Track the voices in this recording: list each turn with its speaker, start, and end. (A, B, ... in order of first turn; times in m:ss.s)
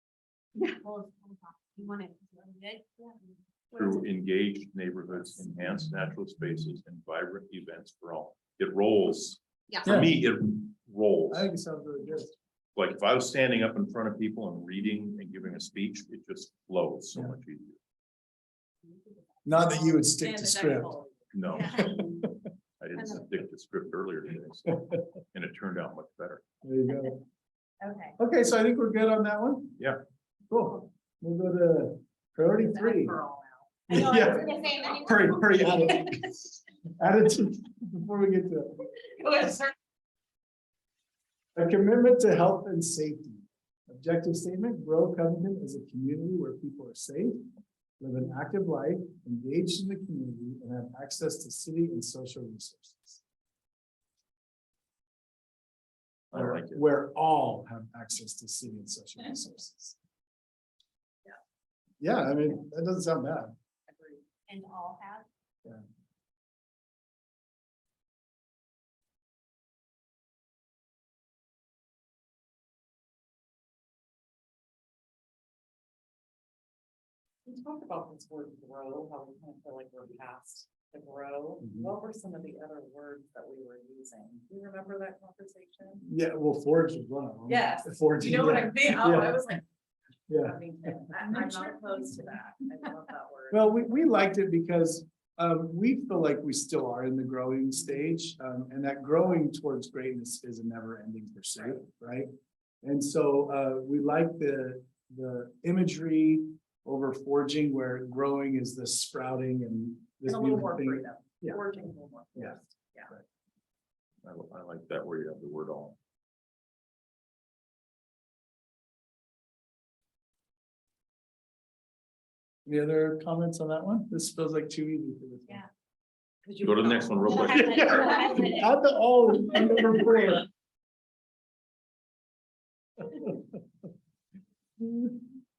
0:00.6-0:03.2 A
0:03.7-0:04.0 A
0:03.7-0:11.5 B
0:09.8-0:10.1 C
0:11.3-0:12.4 C
0:12.8-0:17.8 B
0:19.4-0:21.0 C
0:19.8-0:22.0 D
0:21.3-0:22.0 B
0:21.5-0:21.9 A
0:22.1-0:22.4 C
0:22.8-0:26.4 B
0:23.0-0:23.2 A
0:26.6-0:27.2 C
0:27.8-0:28.1 A
0:28.2-0:29.8 C
0:30.5-0:33.2 C
0:32.6-0:33.7 D
0:33.9-0:36.4 C
0:33.9-0:35.9 A
0:37.0-0:38.8 C
0:39.2-0:39.7 D
0:41.6-0:47.5 C
0:48.0-0:53.2 C
0:56.3-0:56.9 B
0:56.3-1:00.0 C
1:02.0-1:03.5 C
1:03.9-1:04.2 D
1:04.5-1:05.3 A
1:17.5-1:26.0 D
1:21.6-1:21.9 C
1:26.0-1:29.5 C
1:27.5-1:29.6 D
1:30.3-1:31.1 C
1:30.3-1:33.7 D
1:31.4-1:31.9 A
1:33.5-1:51.7 C
1:50.2-1:53.1 D
1:52.3-1:52.6 C
1:54.2-1:56.0 B
2:02.7-2:05.6 C
2:06.4-2:08.3 D
2:06.6-2:08.3 B
2:07.3-2:08.7 A
2:07.8-2:10.5 C
2:13.1-2:13.4 C
2:14.8-2:15.2 C